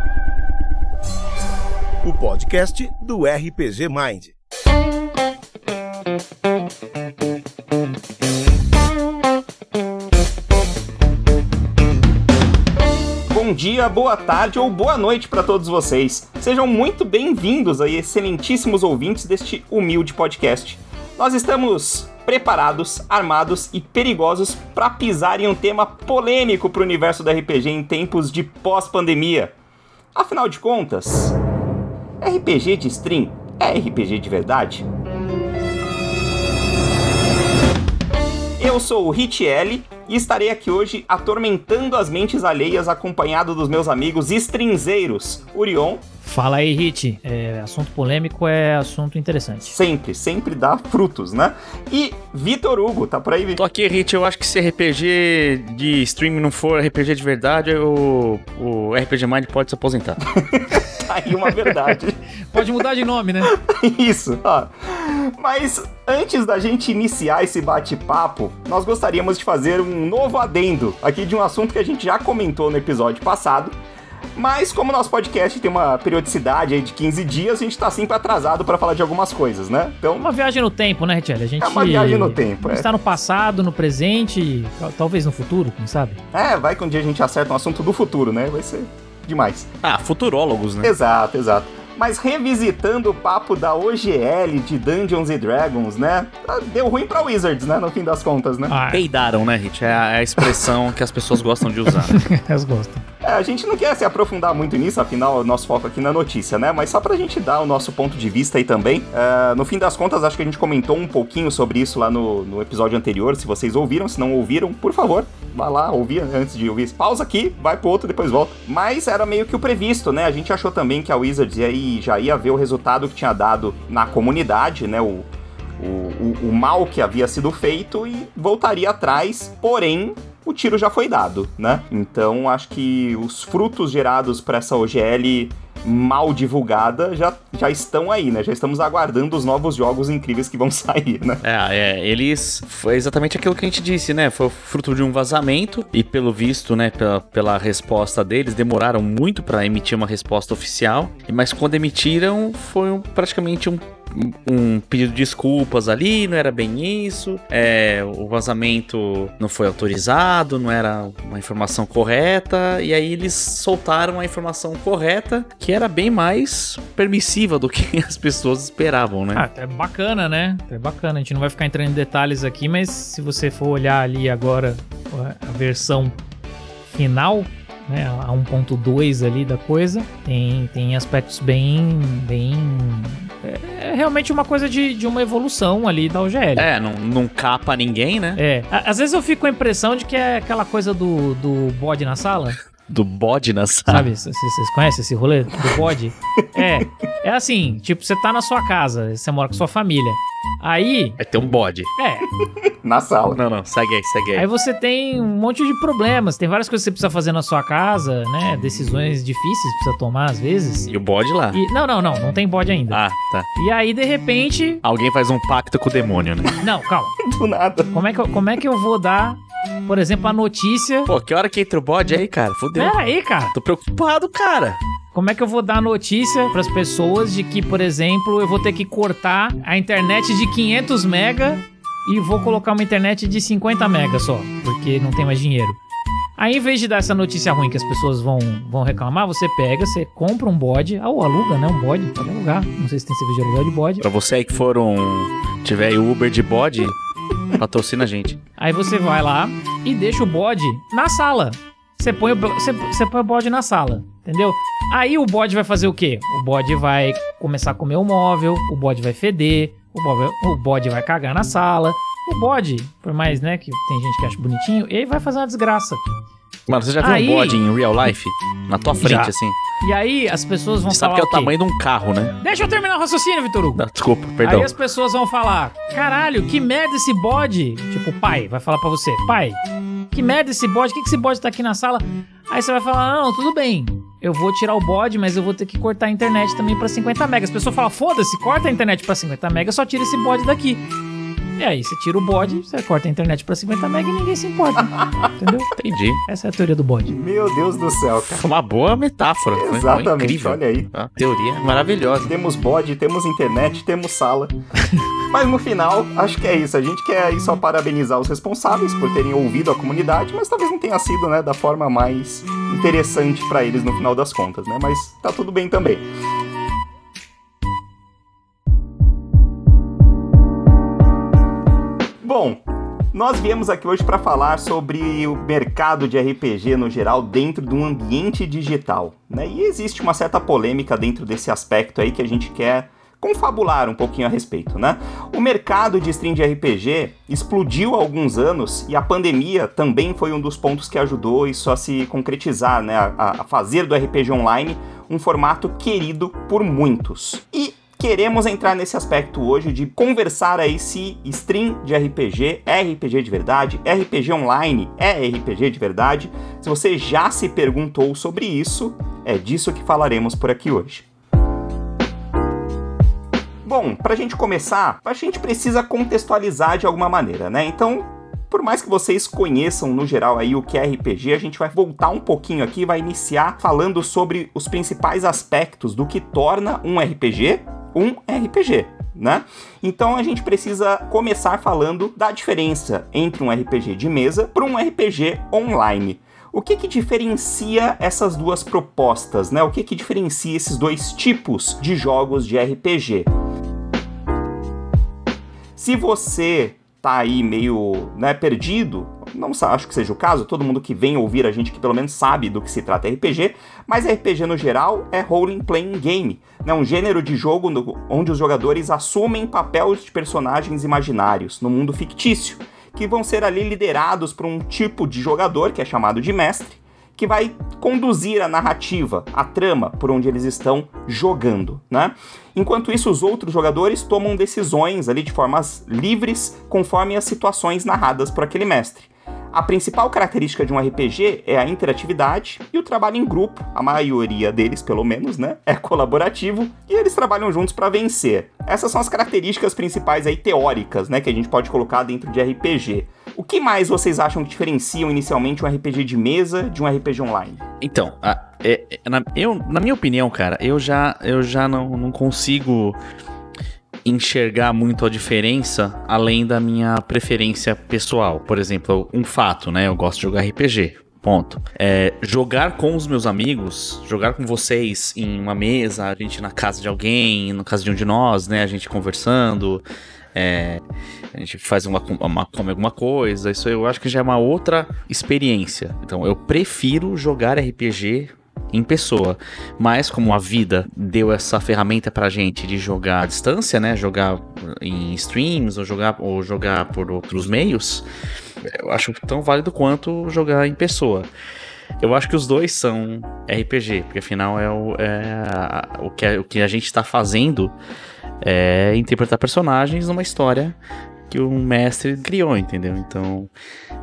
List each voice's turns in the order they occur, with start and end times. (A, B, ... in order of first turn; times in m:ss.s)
0:02.0-0:04.4 A
0:13.3-0:29.5 B
0:30.1-0:31.4 B
0:32.2-0:34.9 B
0:38.6-0:46.0 B
0:46.2-0:49.8 C
0:49.6-0:53.6 B
0:53.6-1:00.2 D
1:00.4-1:02.2 B
1:02.5-1:03.6 C
1:03.5-1:13.8 B
1:14.4-1:20.3 B
1:20.2-1:26.2 C
1:21.6-1:22.9 B
1:26.3-1:29.7 B
1:29.8-1:30.9 D
1:30.8-1:38.8 B
1:38.7-1:39.0 C
1:38.9-1:42.2 D
1:42.0-1:43.0 C
1:43.2-2:21.4 B
2:21.4-2:49.4 D
2:49.4-2:56.2 C
2:56.8-3:06.7 C
3:06.6-3:08.4 D
3:08.4-3:12.6 C
3:12.9-3:14.1 D
3:13.9-3:21.2 C
3:21.2-3:21.9 D
3:22.0-3:22.3 C
3:22.7-3:23.4 B
3:23.3-3:24.5 D
3:24.4-3:30.9 C
3:30.9-3:31.6 D
3:31.5-3:33.0 C
3:32.9-3:33.5 D
3:33.6-3:34.8 C
3:34.8-3:36.6 D
3:36.6-3:37.2 C
3:37.2-3:37.9 B
3:37.9-3:41.1 C
3:41.1-3:43.0 D
3:42.8-3:43.5 C
3:43.5-3:44.8 D
3:45.1-3:55.8 C
3:56.4-4:04.0 C
4:04.0-4:07.0 D
4:07.6-4:08.4 D
4:08.6-4:26.0 C
4:26.7-4:29.6 D
4:27.0-4:27.6 C
4:29.0-4:31.6 C
4:30.9-4:32.4 D
4:32.4-4:33.8 C
4:33.8-4:34.7 D
4:34.4-4:39.6 C
4:40.1-4:50.8 C
4:51.6-4:55.7 C
4:55.7-4:56.2 D
4:56.3-4:57.2 C
4:57.1-4:58.5 B
4:58.2-5:02.3 D
4:59.5-5:00.9 B
5:02.2-5:04.6 B
5:05.3-5:16.1 B
5:22.2-5:22.6 B
5:23.1-6:01.1 B
6:03.6-6:33.3 B
6:35.8-7:27.6 B
7:27.8-7:33.0 D
7:34.0-7:49.8 D
7:50.4-7:50.8 D
7:51.3-8:08.0 D
8:08.6-8:11.3 D
8:12.0-8:17.7 D
8:18.4-8:20.8 D
8:21.3-8:23.5 D